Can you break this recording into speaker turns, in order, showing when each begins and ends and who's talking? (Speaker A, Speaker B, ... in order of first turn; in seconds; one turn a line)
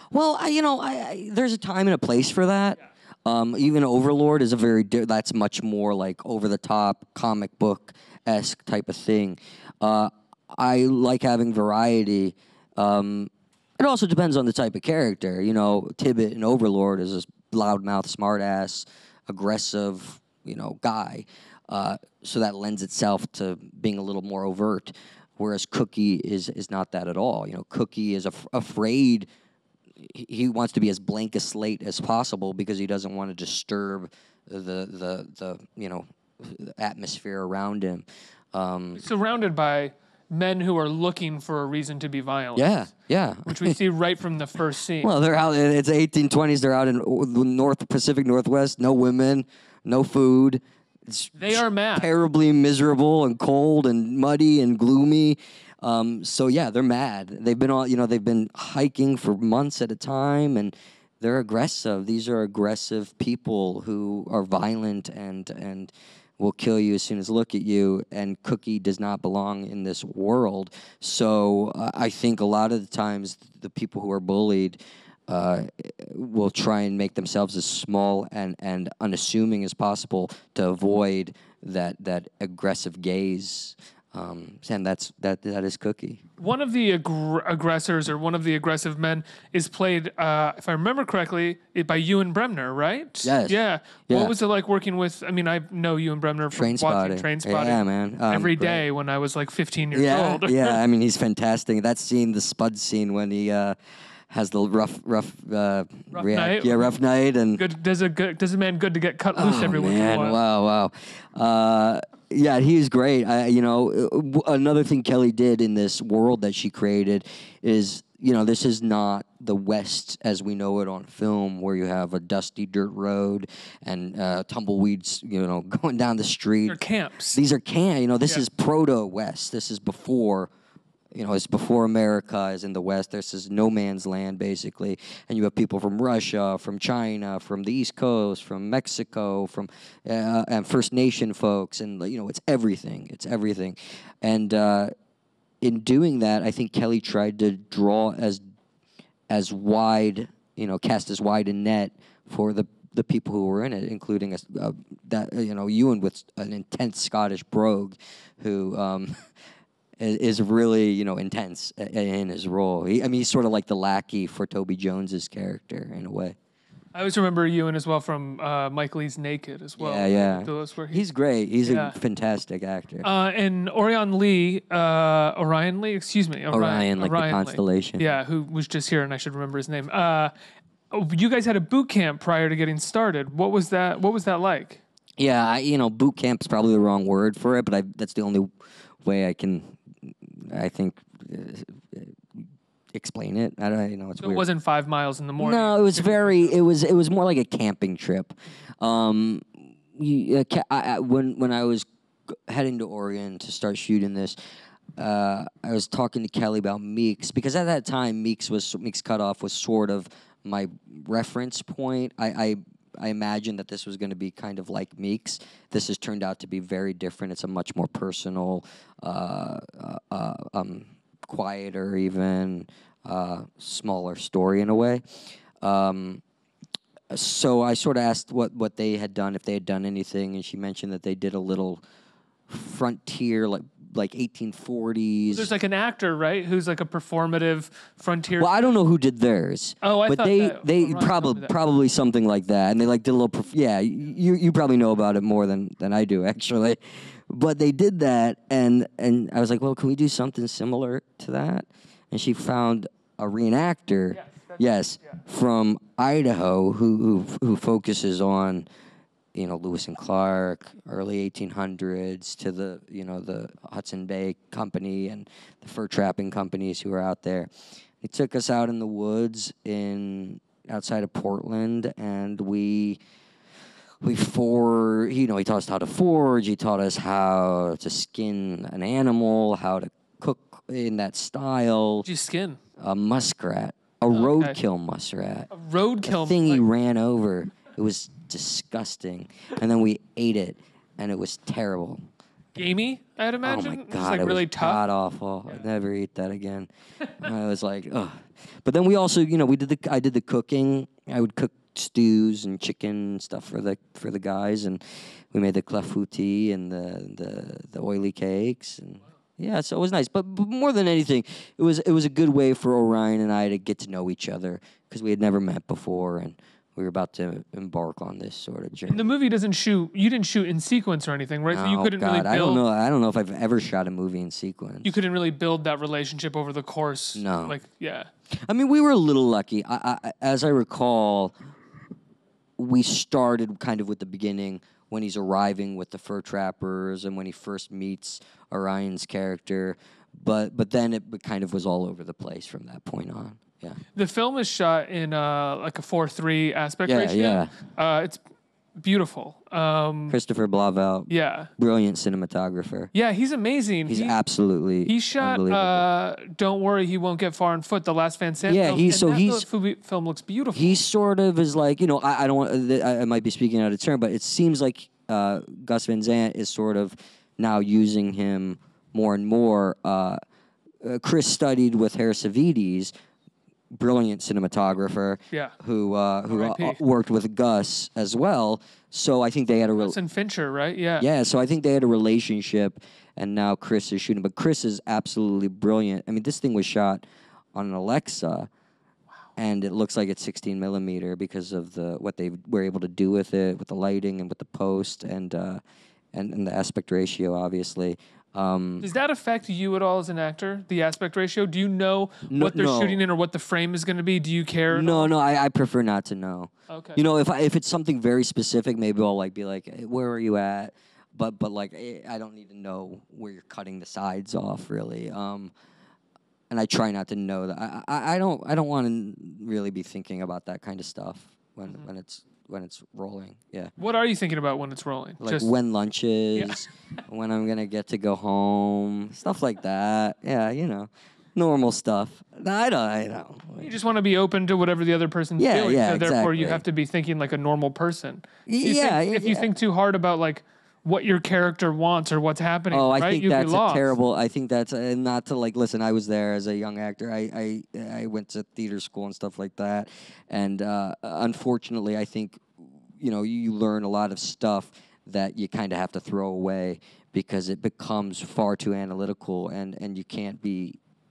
Speaker A: 0.1-29.3
Speaker A: 30.0-39.0
Speaker B: 39.0-42.7
Speaker A: 42.5-43.8
Speaker B: 43.5-45.1
Speaker A: 45.0-86.2
Speaker B: 51.4-52.1
Speaker B: 86.4-100.8
Speaker A: 93.2-94.3
Speaker A: 96.5-98.8
Speaker A: 99.9-103.8
Speaker A: 104.3-107.6
Speaker B: 106.1-106.9
Speaker B: 107.5-110.4
Speaker A: 109.3-126.8
Speaker B: 126.7-127.4
Speaker A: 127.3-130.5
Speaker A: 131.1-144.9
Speaker A: 145.6-148.4
Speaker A: 149.3-159.1
Speaker A: 160.0-166.3
Speaker B: 166.9-171.0
Speaker A: 169.8-173.1
Speaker B: 171.6-171.9
Speaker B: 173.0-180.3
Speaker A: 176.5-178.1
Speaker B: 180.9-184.8
Speaker A: 185.2-188.5
Speaker A: 189.0-194.5
Speaker B: 194.2-196.5
Speaker A: 195.4-204.4
Speaker A: 205.0-226.2
Speaker A: 227.1-231.8
Speaker A: 232.5-235.5
Speaker B: 235.3-238.5
Speaker A: 238.4-258.7
Speaker B: 239.8-241.5
Speaker B: 254.2-255.2
Speaker A: 259.3-273.0
Speaker A: 274.0-282.1
Speaker B: 282.0-282.6
Speaker A: 282.8-285.5
Speaker B: 284.1-284.6
Speaker B: 285.5-286.6
Speaker A: 286.1-292.0
Speaker B: 292.6-294.8
Speaker A: 293.4-319.0
Speaker B: 318.9-322.6
Speaker A: 321.5-324.9
Speaker B: 324.8-328.1
Speaker A: 327.1-327.6
Speaker A: 328.4-331.3
Speaker A: 332.6-343.8
Speaker B: 343.9-348.2
Speaker A: 346.9-347.5
Speaker B: 348.8-350.2
Speaker A: 350.1-352.9
Speaker B: 351.1-351.5
Speaker B: 352.9-354.2
Speaker A: 353.9-355.9
Speaker B: 354.9-360.8
Speaker A: 358.4-359.4
Speaker A: 360.5-370.2
Speaker A: 370.8-372.9
Speaker A: 373.7-379.9
Speaker B: 376.3-376.8
Speaker B: 379.8-381.1
Speaker A: 381.0-388.5
Speaker A: 389.4-395.6
Speaker A: 396.1-398.8
Speaker B: 398.8-405.1
Speaker A: 402.3-403.0
Speaker A: 404.7-415.5
Speaker B: 406.7-407.0
Speaker A: 416.5-423.7
Speaker B: 423.8-425.5
Speaker A: 425.2-433.7
Speaker B: 426.4-426.6
Speaker B: 433.6-443.9
Speaker A: 435.4-436.6
Speaker A: 438.5-439.5
Speaker A: 442.7-460.8